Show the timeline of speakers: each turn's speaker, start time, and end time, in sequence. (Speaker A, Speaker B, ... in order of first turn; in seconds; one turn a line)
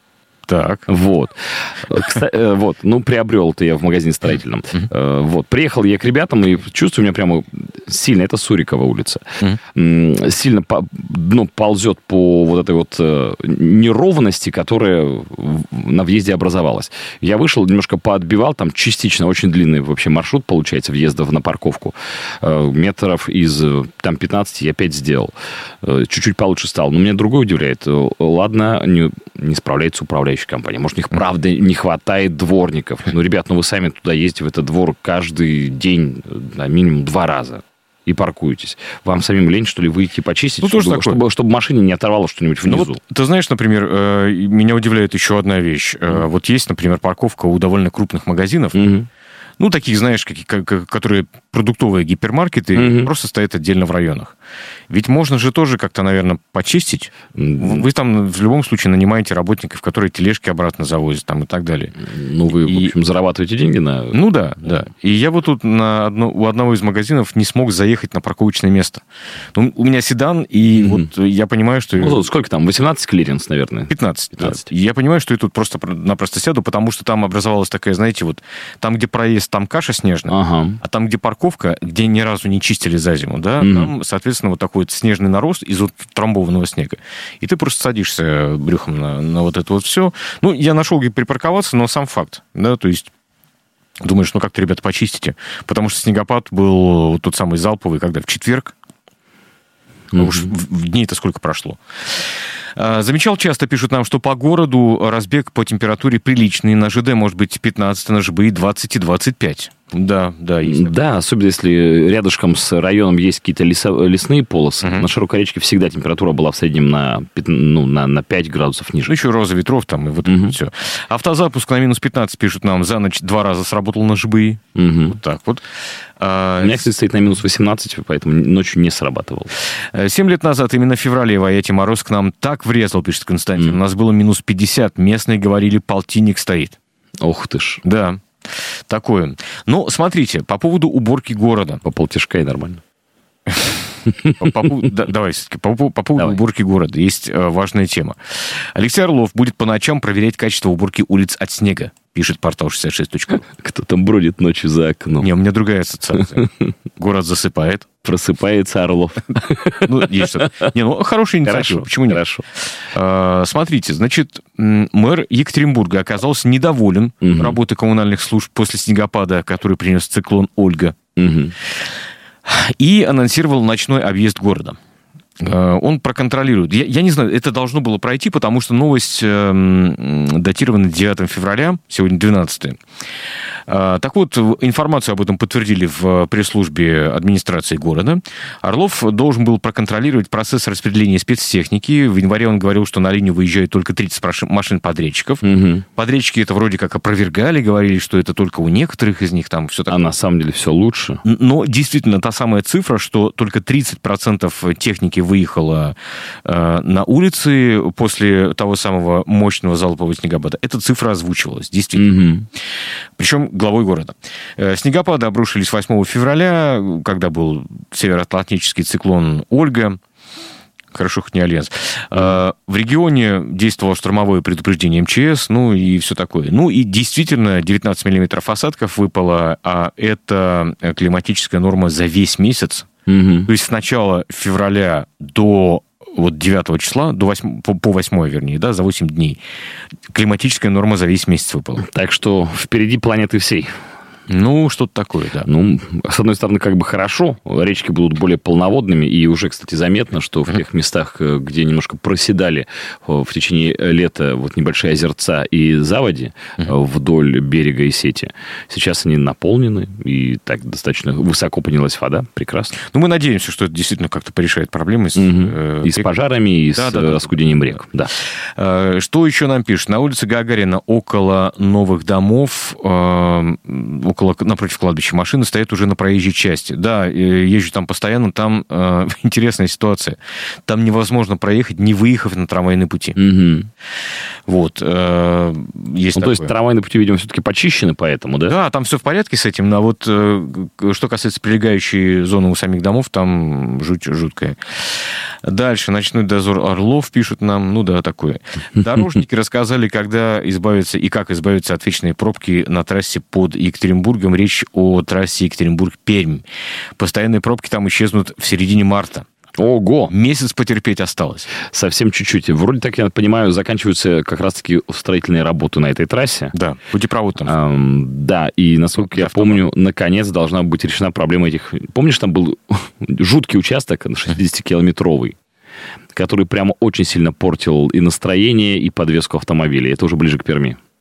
Speaker A: 0.5-0.9
Speaker B: 0.9-43.0
Speaker A: 40.6-41.2
Speaker A: 42.6-48.8
Speaker B: 48.8-49.1
Speaker A: 49.6-54.4
Speaker B: 52.8-53.1
Speaker A: 54.9-61.9
Speaker B: 57.4-57.9
Speaker B: 62.0-64.2
Speaker A: 62.5-62.9
Speaker A: 64.1-69.0
Speaker A: 69.5-72.2
Speaker B: 70.8-71.1
Speaker B: 72.0-74.7
Speaker A: 73.9-93.1
Speaker B: 80.3-80.8
Speaker B: 83.6-83.9
Speaker A: 94.0-98.7
Speaker B: 100.1-100.5
Speaker A: 100.2-102.2
Speaker A: 102.8-110.9
Speaker B: 110.6-119.1
Speaker A: 114.8-115.1
Speaker A: 119.1-125.7
Speaker B: 120.3-120.6
Speaker B: 124.8-125.2
Speaker A: 126.2-126.9
Speaker B: 126.6-129.5
Speaker A: 129.9-136.8
Speaker B: 137.2-137.8
Speaker A: 137.8-138.2
Speaker A: 138.9-141.8
Speaker B: 141.8-142.8
Speaker A: 143.5-143.7
Speaker B: 144.2-144.5
Speaker A: 144.4-153.4
Speaker B: 153.4-155.3
Speaker A: 155.2-156.4
Speaker B: 156.4-156.7
Speaker A: 157.0-157.9
Speaker B: 158.0-160.7
Speaker A: 159.9-162.2
Speaker B: 161.5-162.4
Speaker A: 162.9-171.0
Speaker B: 167.2-167.6
Speaker B: 171.2-171.5
Speaker A: 172.4-174.8
Speaker A: 175.4-182.8
Speaker A: 183.7-200.1
Speaker B: 195.4-195.8
Speaker B: 199.9-201.2
Speaker A: 201.2-212.1
Speaker B: 212.0-212.5
Speaker A: 213.2-220.0
Speaker A: 220.9-232.9
Speaker B: 233.1-233.5
Speaker A: 233.5-239.4
Speaker A: 240.1-241.8
Speaker B: 241.8-243.7
Speaker A: 244.3-245.5
Speaker B: 245.5-262.8
Speaker A: 262.8-266.1
Speaker B: 265.2-268.1
Speaker A: 266.8-267.8
Speaker A: 268.4-283.2
Speaker B: 283.2-283.7
Speaker A: 284.5-286.5
Speaker B: 286.2-288.6
Speaker A: 288.5-306.4
Speaker A: 307.0-309.3
Speaker B: 309.6-310.1
Speaker A: 310.1-311.5
Speaker B: 311.6-316.5
Speaker A: 316.5-317.6
Speaker B: 317.5-325.4
Speaker A: 319.0-319.6
Speaker B: 326.1-330.8